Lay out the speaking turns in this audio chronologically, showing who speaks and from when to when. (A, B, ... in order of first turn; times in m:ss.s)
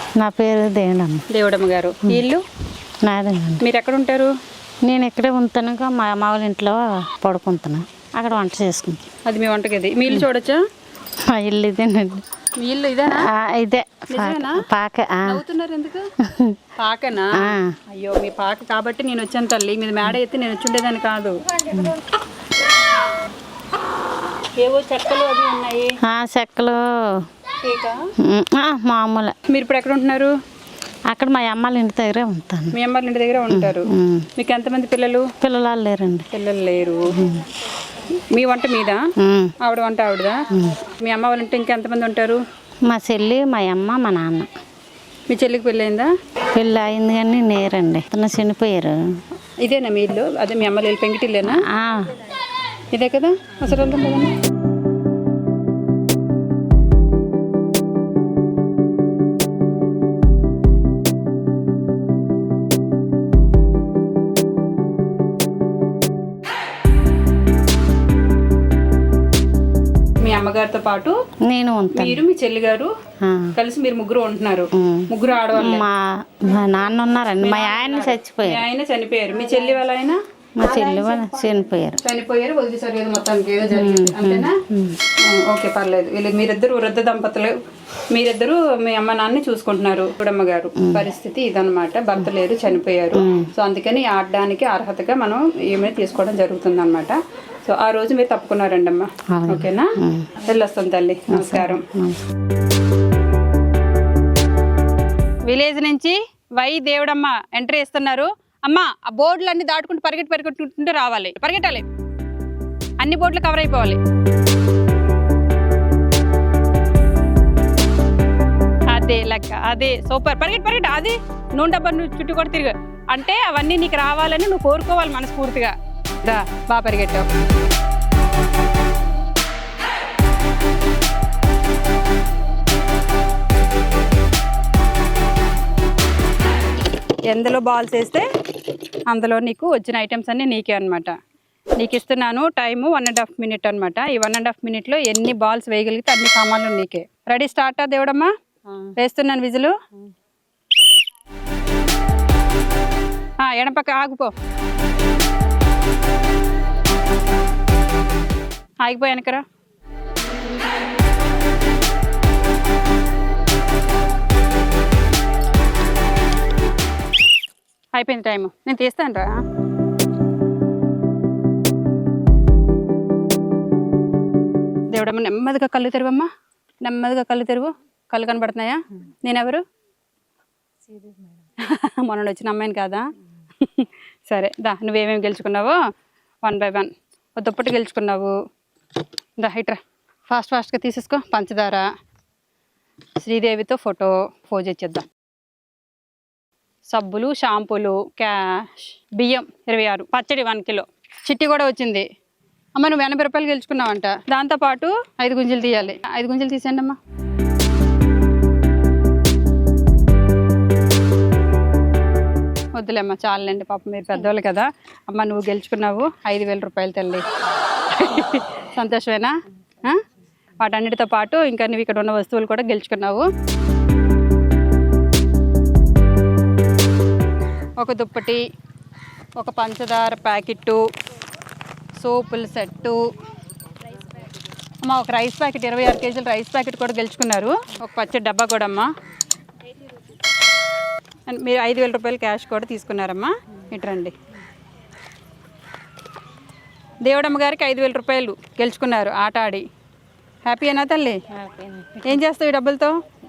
0:00.2-0:01.2 A
0:01.3-0:02.4 B
0:03.0-0:03.6 A
0:03.6-0:04.3 B
0:04.8-0:09.0 A
0:09.2-0:10.6 B
0:11.2-0:12.2 A
0:12.6-0:13.3 B
0:13.1-0:15.4 A
0:14.1-0:14.6 B
0:15.2-0:16.1 B
0:16.2-0:16.6 A
0:16.8-0:21.8 B
0:17.3-0:17.8 A
0:24.6-0:25.9 B
0:26.0-0:27.3 A
0:27.6-0:28.0 B
0:28.2-0:29.3 A
0:29.5-0:30.3 B
0:31.1-0:32.8 A
0:32.7-0:35.3 B
0:33.5-0:34.3 A
0:35.4-0:36.3 A
0:36.3-0:37.1 B
0:37.1-0:37.5 A
0:38.3-0:39.0 B
0:39.2-0:39.5 A
0:39.6-0:42.4 B
0:40.5-0:40.8 A
0:42.9-0:44.5 A
0:45.3-0:46.1 B
0:46.5-0:49.2 A
0:49.6-0:51.6 B
0:51.4-0:52.2 A
0:52.9-0:54.3 B
1:10.2-1:11.2 B
1:11.4-1:12.2 A
1:11.9-1:12.9 B
1:13.2-1:13.5 A
1:13.5-1:15.8 B
1:14.7-1:18.6 A
1:17.4-1:20.2 B
1:20.6-1:22.0 A
1:20.7-1:21.2 B
1:22.0-1:24.6 B
1:23.7-1:25.0 A
1:25.2-1:27.6 B
1:28.1-1:41.8 B
1:33.1-1:33.5 A
1:39.3-1:40.4 A
1:41.3-1:42.2 A
1:45.5-1:51.8 B
1:53.0-1:54.0 B
1:58.9-2:07.3 B
2:17.3-2:21.1 B
2:21.8-2:28.3 B
2:29.0-2:29.7 B
2:33.4-2:34.3 B
2:38.8-2:39.4 B
2:47.9-2:49.4 B
2:54.9-2:56.3 B
2:56.8-2:59.6 B
3:01.6-3:03.0 B
3:03.6-3:05.8 B
3:06.4-3:08.3 B
3:09.4-3:09.8 B
3:10.3-3:11.9 B
3:13.2-3:15.0 B
3:16.9-3:22.0 B
3:22.8-3:27.0 B
3:32.8-3:37.2 B
3:37.9-3:40.0 B
3:40.6-3:43.3 B
3:47.8-3:48.4 B
3:49.4-3:50.8 B
3:52.0-3:53.1 B
3:54.8-3:58.9 B
4:01.3-4:04.1 B
4:07.0-4:09.6 B
4:10.4-4:11.2 B
4:11.3-4:12.2 A
4:12.0-4:13.0 B